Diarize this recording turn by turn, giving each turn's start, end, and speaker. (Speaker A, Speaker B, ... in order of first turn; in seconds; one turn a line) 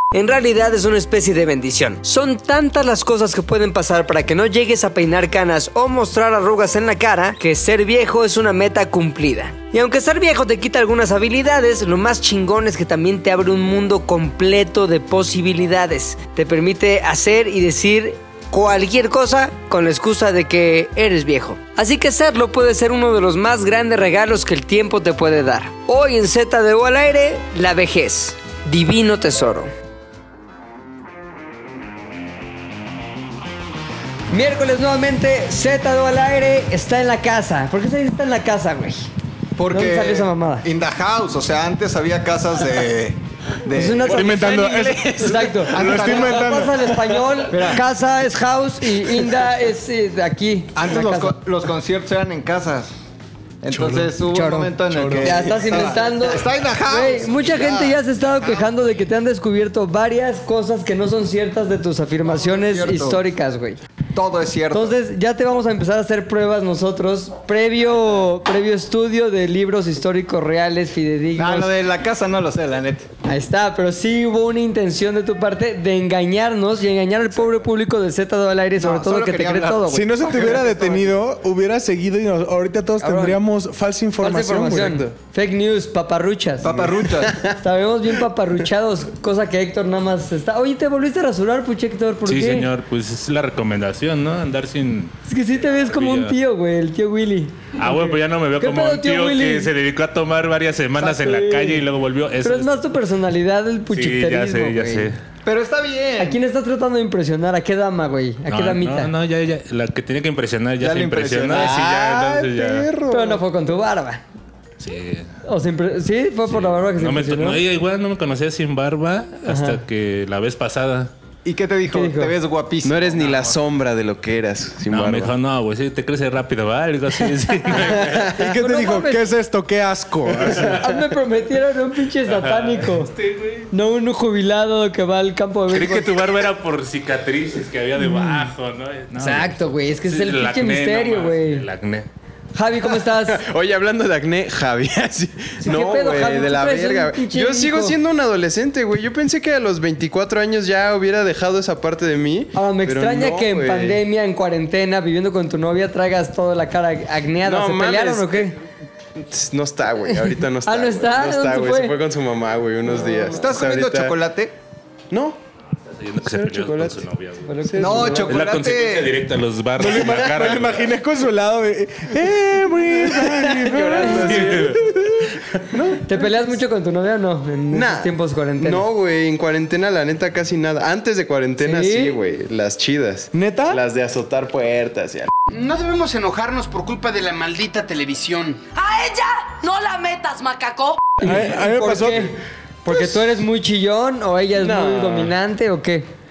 Speaker A: 0.1-29.7
Speaker A: 34.3-39.1
Speaker B: 39.6-44.2
Speaker A: 39.7-40.6
Speaker A: 43.7-51.4
Speaker C: 44.1-46.9
Speaker D: 44.2-45.4
Speaker B: 45.7-46.6
Speaker C: 47.5-47.8
Speaker B: 50.8-52.9
Speaker B: 53.6-58.7
Speaker C: 53.7-54.1
Speaker A: 54.3-63.8
Speaker C: 54.9-55.4
Speaker B: 62.3-63.2
Speaker B: 64.2-65.0
Speaker A: 64.7-71.7
Speaker B: 71.4-73.1
Speaker A: 73.2-80.9
Speaker B: 78.8-81.0
Speaker C: 79.9-84.9
Speaker A: 83.0-83.4
Speaker A: 84.2-86.8
Speaker D: 84.8-85.1
Speaker B: 86.6-87.4
Speaker A: 87.5-92.7
Speaker E: 92.3-96.3
Speaker A: 95.3-99.7
Speaker E: 97.8-102.9
Speaker A: 101.0-101.8
Speaker A: 102.4-105.1
Speaker E: 103.9-105.2
Speaker B: 105.4-106.4
Speaker A: 106.2-109.1
Speaker E: 108.5-112.9
Speaker B: 110.8-112.1
Speaker C: 112.4-113.2
Speaker A: 113.1-114.2
Speaker E: 114.8-115.3
Speaker A: 115.5-117.6
Speaker E: 116.5-121.1
Speaker A: 119.5-119.8
Speaker B: 121.5-123.5
Speaker A: 121.9-122.3
Speaker D: 122.8-125.3
Speaker E: 124.9-128.3
Speaker D: 127.9-128.3
Speaker C: 128.3-130.9
Speaker A: 128.4-129.3
Speaker A: 130.7-133.2
Speaker E: 132.3-132.8
Speaker A: 133.7-136.1
Speaker E: 135.7-142.1
Speaker A: 138.0-138.5
Speaker A: 139.2-141.7
Speaker A: 142.6-143.4
Speaker D: 143.3-154.0
Speaker A: 145.6-148.0
Speaker A: 152.5-158.6
Speaker D: 157.4-158.5
Speaker D: 159.2-164.1
Speaker A: 160.7-162.0
Speaker B: 163.2-164.5
Speaker D: 165.1-165.4
Speaker E: 166.0-167.6
Speaker D: 166.2-167.0
Speaker A: 167.5-168.3
Speaker D: 167.6-168.3
Speaker B: 167.8-169.3
Speaker E: 168.3-170.9
Speaker C: 169.8-174.8
Speaker D: 173.1-174.8
Speaker E: 174.1-175.6
Speaker A: 176.0-178.8
Speaker D: 177.7-185.3
Speaker A: 181.6-182.2
Speaker C: 183.3-183.8
Speaker F: 185.5-188.7
Speaker G: 188.8-191.1
Speaker C: 191.2-192.3
Speaker A: 191.2-196.1
Speaker D: 194.6-195.3